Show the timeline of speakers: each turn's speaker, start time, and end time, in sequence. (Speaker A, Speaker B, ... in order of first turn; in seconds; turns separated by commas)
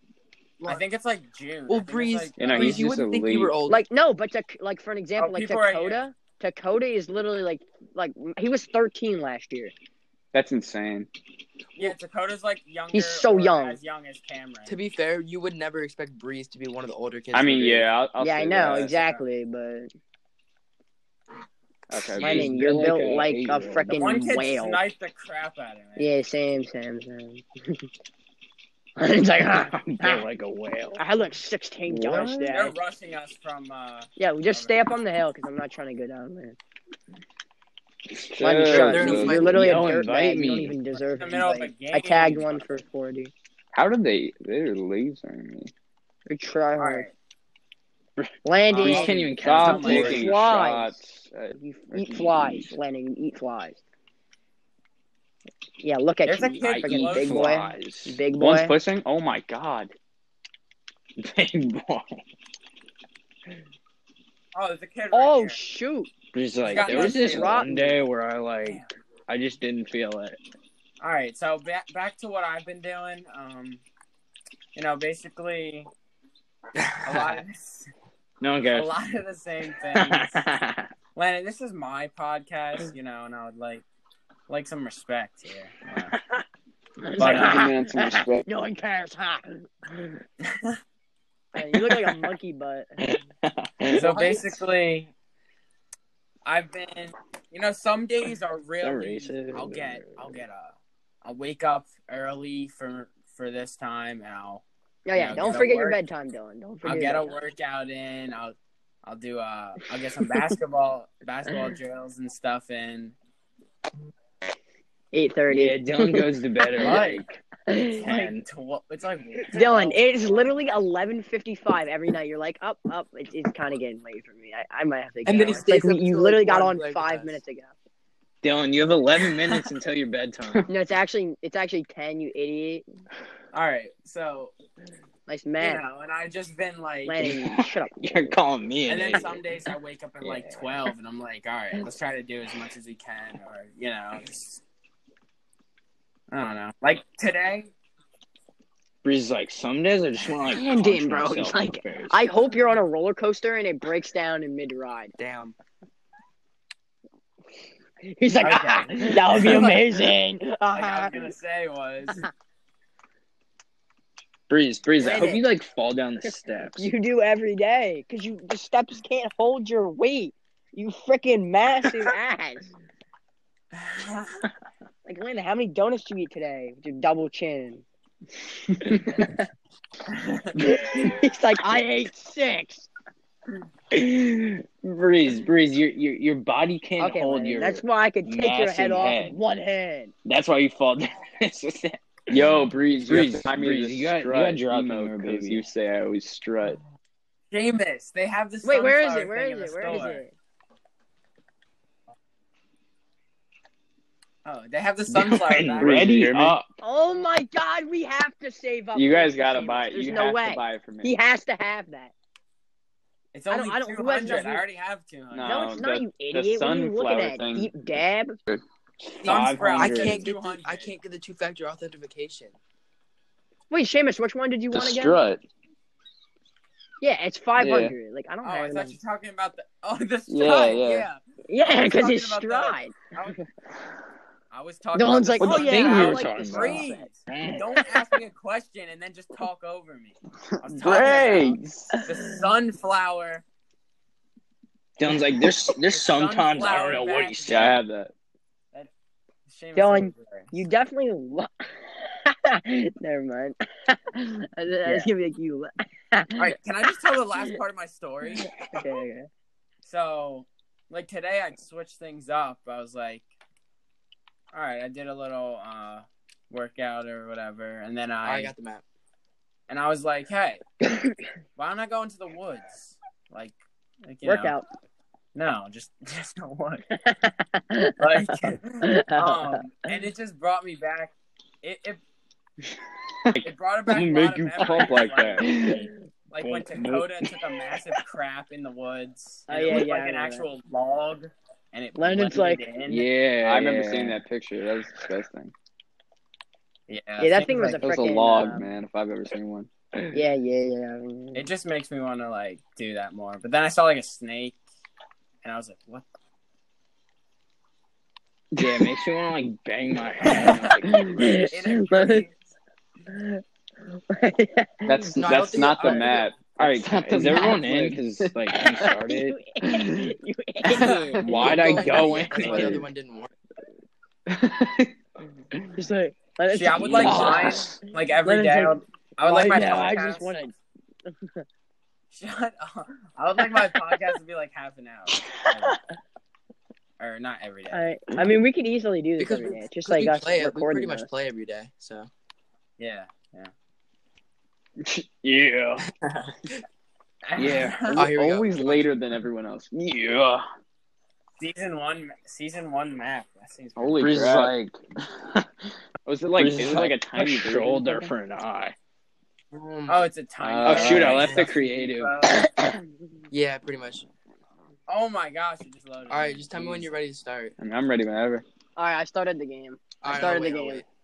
Speaker A: 0.6-2.9, Speaker B: 1.7-3.8, Speaker C: 2.4-3.5, Speaker D: 3.7-9.7, Speaker A: 5.2-6.0, Speaker C: 10.3-11.1, Speaker A: 11.8-14.8, Speaker D: 12.9-13.8, Speaker B: 14.7-17.9, Speaker C: 17.3-18.9, Speaker D: 18.2-19.9, Speaker A: 18.7-19.2, Speaker C: 21.9-22.5, Speaker D: 22.2-24.8, Speaker E: 22.2-24.3, Speaker A: 23.9-26.1, Speaker D: 26.0-27.9, Speaker D: 29.0-30.2, Speaker E: 29.5-31.0, Speaker D: 31.0-32.8, Speaker C: 31.9-32.5, Speaker E: 32.0-32.4, Speaker A: 32.5-35.0, Speaker D: 34.2-36.6, Speaker E: 38.1-40.8, Speaker C: 38.4-39.4, Speaker D: 38.4-43.3, Speaker B: 38.7-39.7, Speaker A: 41.0-42.8, Speaker C: 43.7-45.7, Speaker D: 46.3-47.1, Speaker A: 46.8-47.1, Speaker E: 48.2-50.3, Speaker D: 48.5-49.2, Speaker A: 48.7-50.3, Speaker C: 49.4-52.8, Speaker D: 49.8-51.0, Speaker D: 51.5-53.8, Speaker D: 55.8-58.8, Speaker A: 56.3-57.6, Speaker E: 56.6-58.2, Speaker C: 58.4-59.9, Speaker E: 61.2-62.2, Speaker A: 64.5-65.6, Speaker D: 65.1-66.1, Speaker E: 66.3-70.4, Speaker A: 66.6-67.5, Speaker D: 66.7-68.0, Speaker A: 71.0-73.8, Speaker A: 74.8-75.9, Speaker B: 76.8-77.4, Speaker A: 77.0-77.9, Speaker E: 78.4-78.9, Speaker A: 78.7-80.5, Speaker E: 79.9-80.9, Speaker A: 81.2-83.8, Speaker A: 84.5-86.2, Speaker E: 86.1-86.4, Speaker D: 87.0-90.2, Speaker A: 87.2-87.7, Speaker C: 87.2-88.5, Speaker A: 90.4-90.8, Speaker D: 91.5-92.9, Speaker E: 91.6-92.3, Speaker E: 93.0-94.4, Speaker A: 93.9-95.1, Speaker D: 94.0-94.3, Speaker A: 96.5-104.6, Speaker E: 98.8-100.5, Speaker D: 105.1-107.3, Speaker A: 105.1-106.0, Speaker A: 106.8-113.2, Speaker D: 115.1-116.3, Speaker E: 115.5-117.4, Speaker A: 116.8-117.3, Speaker D: 117.7-118.1, Speaker E: 118.0-118.5, Speaker A: 118.0-120.5, Speaker D: 119.5-127.7, Speaker B: 125.2-127.4, Speaker E: 128.4-130.7, Speaker D: 130.7-132.8, Speaker A: 133.5-134.5, Speaker D: 135.3-135.8, Speaker A: 135.6-137.2, Speaker D: 137.1-138.3, Speaker E: 137.2-139.4, Speaker A: 138.9-144.6, Speaker E: 140.2-140.9, Speaker A: 146.3-147.7, Speaker E: 149.0-152.2, Speaker D: 150.5-155.2, Speaker B: 155.2-155.5, Speaker D: 158.0-161.3, Speaker A: 158.4-159.8, Speaker A: 160.7-162.3, Speaker E: 164.5-166.9, Speaker D: 165.0-165.4, Speaker D: 166.8-172.7, Speaker A: 173.8-174.4, Speaker D: 175.1-177.8, Speaker D: 179.1-179.4, Speaker A: 180.1-180.5, Speaker D: 180.6-182.9, Speaker E: 183.9-189.4, Speaker D: 187.0-190.1, Speaker E: 190.2-192.5, Speaker C: 192.3-196.8, Speaker E: 193.0-195.7, Speaker A: 197.5-200.2, Speaker D: 198.6-200.3, Speaker A: 204.4-206.2, Speaker E: 205.1-206.8, Speaker C: 205.8-206.6, Speaker D: 206.8-212.1, Speaker C: 208.9-211.2, Speaker A: 213.3-215.9, Speaker D: 213.5-214.7, Speaker C: 215.3-217.7, Speaker D: 215.4-218.4, Speaker E: 219.1-220.3, Speaker A: 219.2-221.0, Speaker B: 219.2-222.6, Speaker D: 223.7-225.2, Speaker C: 224.7-225.4, Speaker D: 227.0-229.0, Speaker C: 227.6-227.9, Speaker A: 228.4-233.4, Speaker C: 230.3-231.1, Speaker D: 231.5-233.0, Speaker A: 234.5-243.4, Speaker D: 234.9-237.1, Speaker E: 235.4-237.9, Speaker C: 240.7-242.0, Speaker E: 240.9-241.5, Speaker E: 245.0-247.8, Speaker A: 245.9-247.7, Speaker C: 247.5-248.1, Speaker A: 249.5-250.6, Speaker D: 249.8-256.6, Speaker A: 256.4-258.5, Speaker D: 258.5-259.3, Speaker A: 259.8-263.2, Speaker A: 264.5-268.5, Speaker B: 268.2-268.8, Speaker A: 269.7-270.6, Speaker D: 270.9-271.2, Speaker A: 271.6-274.6, Speaker D: 274.2-274.7, Speaker A: 275.3-276.9, Speaker D: 276.9-279.6, Speaker A: 278.0-282.0, Speaker C: 283.2-285.8, Speaker A: 283.4-293.1, Speaker D: 285.5-285.9, Speaker E: 285.5-285.8, Speaker E: 286.4-287.3, Speaker D: 289.5-290.5, Speaker D: 292.0-292.6, Speaker E: 292.9-294.2, Speaker C: 293.4-295.5, Speaker A: 296.9-297.8, Speaker D: 297.2-298.7, Speaker C: 297.8-299.7, Speaker D: 300.1-301.5, Speaker A: 301.3-304.6, Speaker A: 305.4-306.1, Speaker E: 308.6-311.5, Speaker D: 310.2-312.2, Speaker C: 310.4-310.9, Speaker A: 311.3-312.4, Speaker D: 313.1-316.1, Speaker C: 314.9-318.0, Speaker B: 315.1-316.4, Speaker E: 316.6-319.5, Speaker D: 317.2-317.9, Speaker D: 318.5-322.7, Speaker C: 320.7-321.1, Speaker A: 320.8-321.2, Speaker E: 321.2-322.9, Speaker B: 321.2-323.3, Speaker C: 324.3-324.9, Speaker D: 325.8-330.6, Speaker A: 326.5-330.3, Speaker E: 326.9-327.8, Speaker D: 331.1-331.4, Speaker A: 332.1-335.8, Speaker A: 337.0-337.9, Speaker D: 337.7-341.1, Speaker B: 339.2-342.1, Speaker A: 342.8-343.5, Speaker E: 344.9-345.8, Speaker B: 345.8-346.3, Speaker A: 347.3-348.1, Speaker E: 347.4-348.1, Speaker B: 347.9-348.9, Speaker C: 348.0-349.7, Speaker E: 349.7-350.5, Speaker A: 351.4-354.1, Speaker C: 353.8-354.6, Speaker E: 354.0-355.5, Speaker C: 356.1-358.1, Speaker E: 356.4-358.8, Speaker B: 359.5-360.1, Speaker A: 359.9-362.4, Speaker C: 360.4-361.3, Speaker E: 360.6-362.5, Speaker B: 360.7-361.5, Speaker B: 363.3-364.1, Speaker A: 364.9-367.0, Speaker B: 366.1-367.6, Speaker C: 367.6-368.4, Speaker D: 368.8-370.8, Speaker B: 370.0-370.9